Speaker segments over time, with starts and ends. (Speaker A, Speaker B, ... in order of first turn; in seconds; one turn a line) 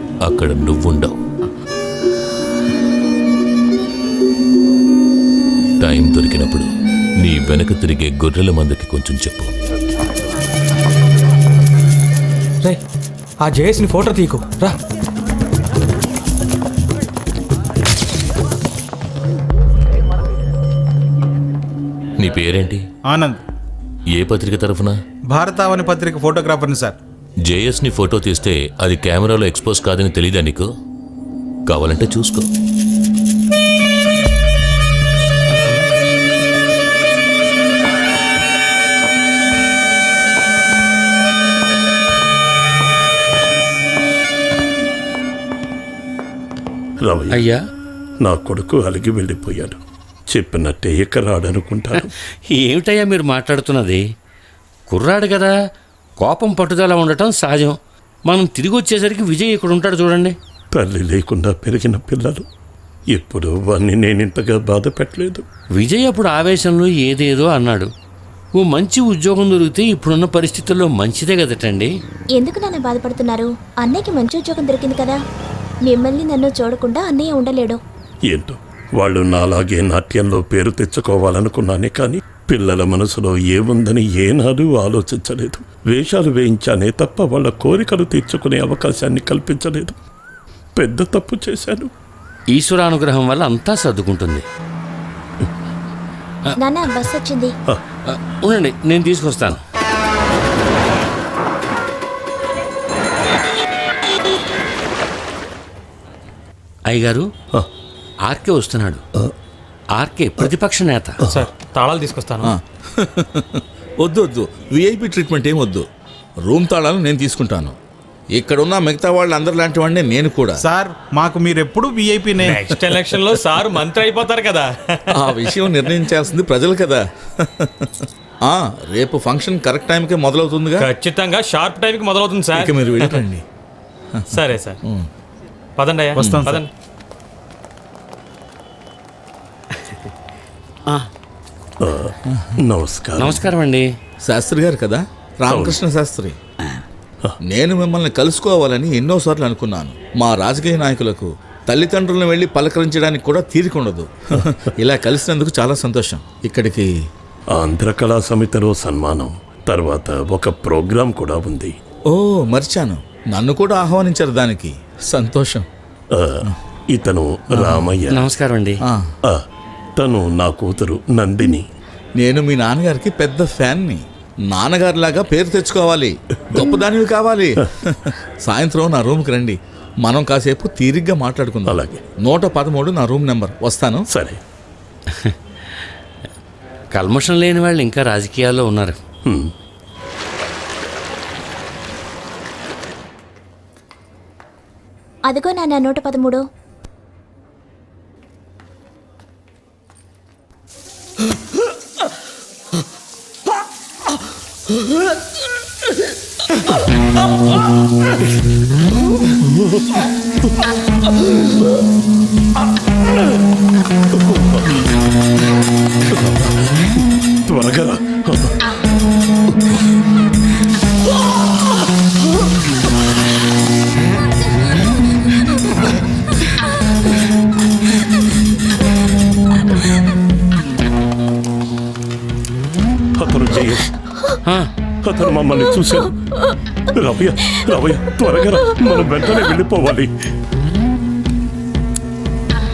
Speaker A: 0.2-1.2
Speaker A: 5.8-6.7
Speaker A: 7.2-9.5
Speaker B: 13.4-14.8
Speaker A: 22.2-22.8
Speaker C: 23.1-23.4
Speaker A: 24.1-24.9
Speaker C: 25.3-26.9
Speaker A: 27.4-30.7
Speaker A: 31.7-32.5
Speaker D: 47.0-47.5
Speaker E: 47.3-47.6
Speaker D: 48.2-49.8
Speaker D: 50.3-52.1
Speaker E: 52.5-54.0
Speaker E: 54.9-55.5
Speaker E: 56.2-60.4
Speaker D: 60.7-62.5
Speaker D: 63.1-65.4
Speaker E: 65.8-67.9
Speaker E: 68.6-71.9
Speaker F: 72.3-75.2
Speaker F: 75.8-77.8
Speaker D: 78.3-90.0
Speaker D: 90.8-91.9
Speaker E: 92.5-94.4
Speaker F: 96.6-97.5
Speaker E: 98.1-99.6
Speaker E: 106.9-107.3
Speaker E: 108.3-109.0
Speaker E: 110.0-111.2
Speaker B: 111.3-112.5
Speaker G: 112.4-115.8
Speaker G: 116.5-117.8
Speaker G: 118.3-120.6
Speaker C: 120.6-122.6
Speaker B: 122.4-125.1
Speaker G: 125.1-130.9
Speaker B: 130.8-133.2
Speaker G: 132.5-133.4
Speaker B: 134.3-134.8
Speaker B: 135.8-136.7
Speaker G: 136.2-136.6
Speaker C: 136.2-136.6
Speaker D: 141.8-142.1
Speaker D: 142.6-143.4
Speaker E: 143.2-143.9
Speaker G: 144.2-146.4
Speaker D: 145.5-145.8
Speaker G: 147.5-156.9
Speaker D: 157.6-161.8
Speaker G: 162.1-165.7
Speaker D: 166.2-168.2
Speaker G: 167.5-167.9
Speaker E: 168.1-168.8
Speaker D: 170.0-171.7
Speaker G: 172.2-184.0
Speaker D: 181.7-182.0
Speaker D: 184.1-184.4
Speaker E: 186.9-189.0
Speaker F: 195.3-196.4
Speaker D: 209.4-209.8
Speaker D: 214.2-214.8
Speaker D: 216.2-216.5
Speaker D: 217.5-218.6
Speaker D: 233.2-233.9
Speaker E: 234.4-234.7
Speaker D: 235.0-236.1
Speaker D: 236.9-240.1